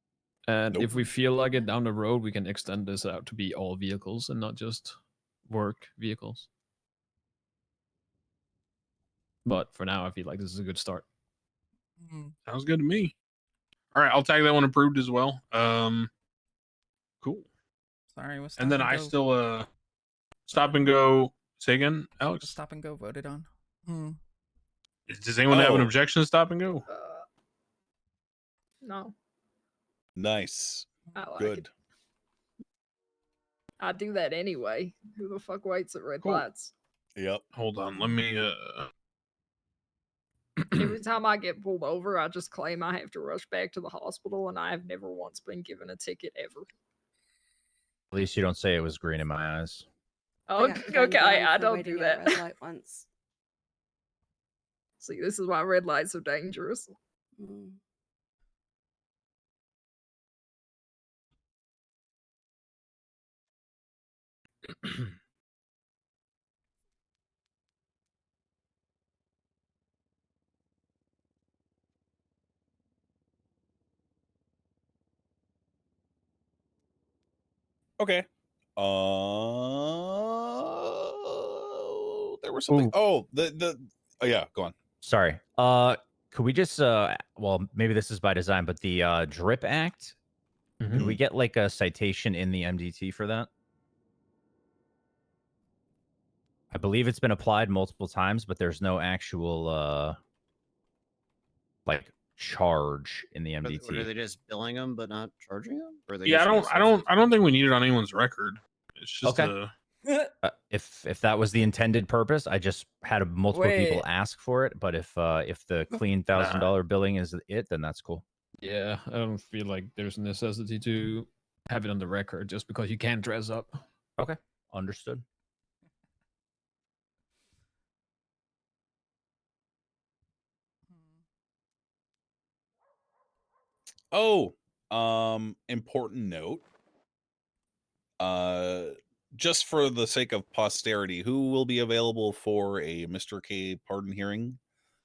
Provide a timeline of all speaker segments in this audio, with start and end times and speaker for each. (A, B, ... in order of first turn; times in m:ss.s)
0:00.5-0:05.0 A
0:00.7-0:01.0 B
0:05.5-0:06.5 A
0:09.4-0:11.0 A
0:12.0-0:12.3 C
0:12.5-0:13.2 D
0:13.9-0:16.1 D
0:17.2-0:17.5 D
0:18.2-0:19.2 C
0:18.6-0:19.7 D
0:20.5-0:22.6 D
0:22.4-0:24.2 C
0:25.1-0:26.8 D
0:25.5-0:25.9 B
0:26.9-0:27.2 E
0:28.8-0:29.1 E
0:30.2-0:31.7 B
0:31.1-0:31.7 E
0:33.8-0:36.7 E
0:36.2-0:36.5 D
0:37.2-0:37.4 B
0:37.6-0:38.9 D
0:40.6-0:40.9 D
0:40.8-0:46.7 E
0:48.1-0:49.8 F
0:50.5-0:52.4 E
0:50.6-0:53.1 G
0:55.0-0:56.9 E
0:57.4-0:57.8 G
1:18.0-1:24.7 B
1:25.0-1:30.2 F
1:30.8-1:31.1 A
1:31.0-1:33.5 F
1:36.7-1:40.2 F
1:41.9-1:44.1 F
1:43.6-1:47.0 H
1:46.2-1:49.7 D
1:49.2-1:49.6 F
1:50.4-1:58.2 F
1:53.5-1:54.0 E
1:56.3-1:56.8 D
1:58.6-2:03.8 A
2:04.2-2:05.2 F
2:14.1-2:16.6 B
2:18.2-2:24.6 B